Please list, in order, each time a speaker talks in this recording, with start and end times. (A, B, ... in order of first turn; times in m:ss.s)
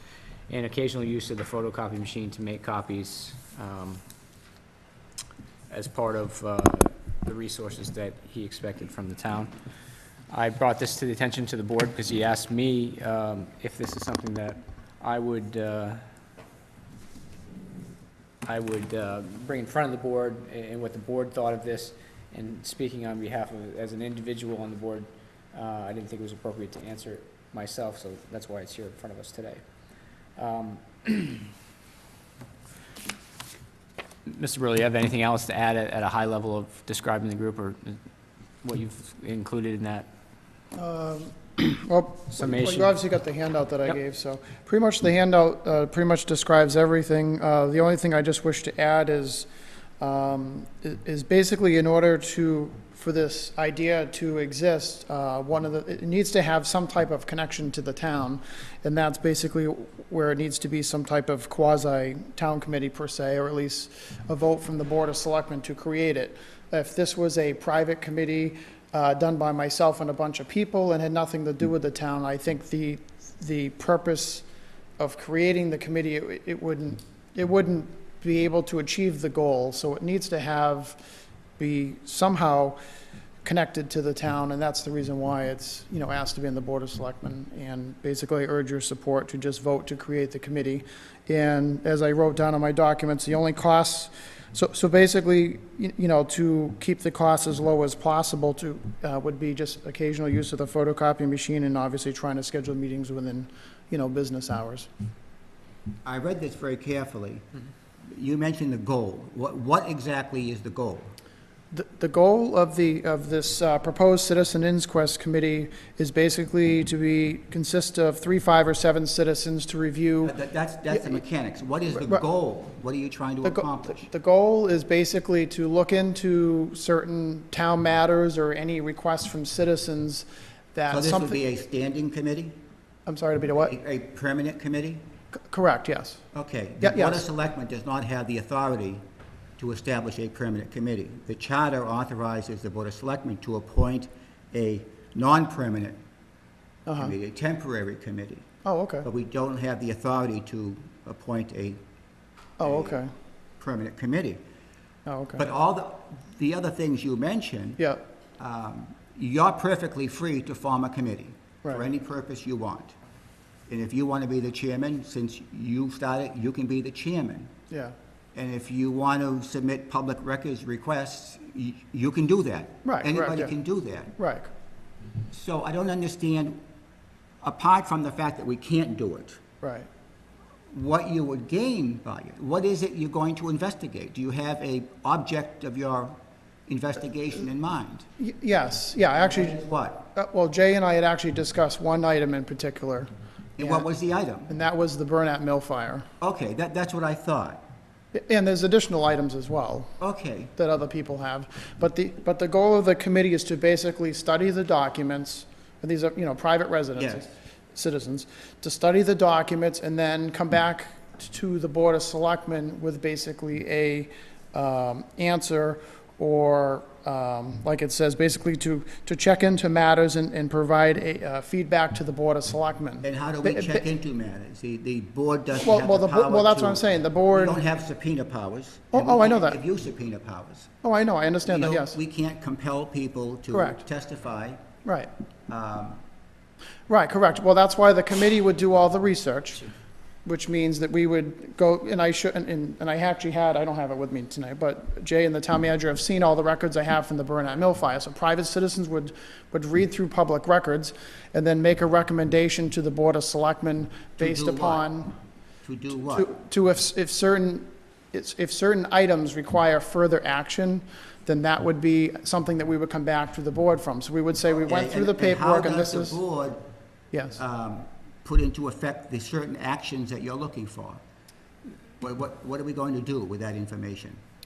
0:00.5-0:04.0 A
0:05.7-0:09.5 A
0:10.3-0:16.0 A
0:18.4-0:29.6 A
0:30.4-0:31.5 A
0:34.3-0:38.0 A
0:38.6-0:40.1 A
0:40.7-0:49.5 B
0:42.4-0:42.9 A
0:50.0-1:14.4 B
1:15.0-1:21.0 B
1:21.6-1:22.8 B
1:23.4-1:44.9 B
1:46.0-1:47.4 C
1:48.1-1:51.1 C
1:51.7-2:00.4 B
2:00.2-2:04.1 C
2:00.9-2:01.2 B
2:01.9-2:02.2 B
2:03.4-2:11.4 B
2:10.9-2:12.6 C
2:13.0-2:13.7 B
2:13.6-2:15.0 C
2:15.5-2:16.2 B
2:16.3-2:19.0 C
2:16.8-2:17.2 B
2:19.6-2:26.0 C
2:26.8-2:27.1 B
2:26.9-2:28.4 C
2:28.6-2:29.1 B
2:29.0-2:31.8 C
2:32.6-2:33.1 B
2:32.6-2:33.0 C
2:33.6-2:34.4 C
2:35.0-2:35.5 B
2:35.4-2:37.8 C
2:37.8-2:38.0 B
2:38.4-2:42.9 C
2:43.7-2:47.5 C
2:47.7-2:47.9 B
2:48.3-2:54.1 C
2:52.8-2:53.6 B
2:54.2-2:54.5 B
2:55.3-2:56.6 C
2:57.4-2:59.4 C
2:59.6-2:59.9 B
3:00.7-3:08.1 C
3:08.2-3:09.6 B
3:09.2-3:10.1 C
3:10.1-3:13.9 B
3:13.6-3:14.5 C
3:14.5-3:16.1 B
3:16.2-3:17.6 C
3:18.1-3:20.0 B
3:20.0-3:20.5 C
3:20.6-3:43.8 B
3:27.0-3:27.2 C
3:43.0-3:50.7 C
3:45.6-3:47.6 B
3:48.9-3:49.6 B
3:50.8-3:52.0 B
3:51.4-3:54.6 C
3:53.5-3:53.8 B
3:54.8-3:55.1 B
3:55.5-3:56.0 C
3:56.9-3:59.7 B
4:00.2-4:15.1 B
4:14.2-4:14.8 C
4:15.6-4:16.3 C
4:15.9-4:26.2 B
4:24.5-4:26.6 C
4:27.1-4:27.4 B
4:27.4-4:31.0 C
4:32.0-4:34.2 C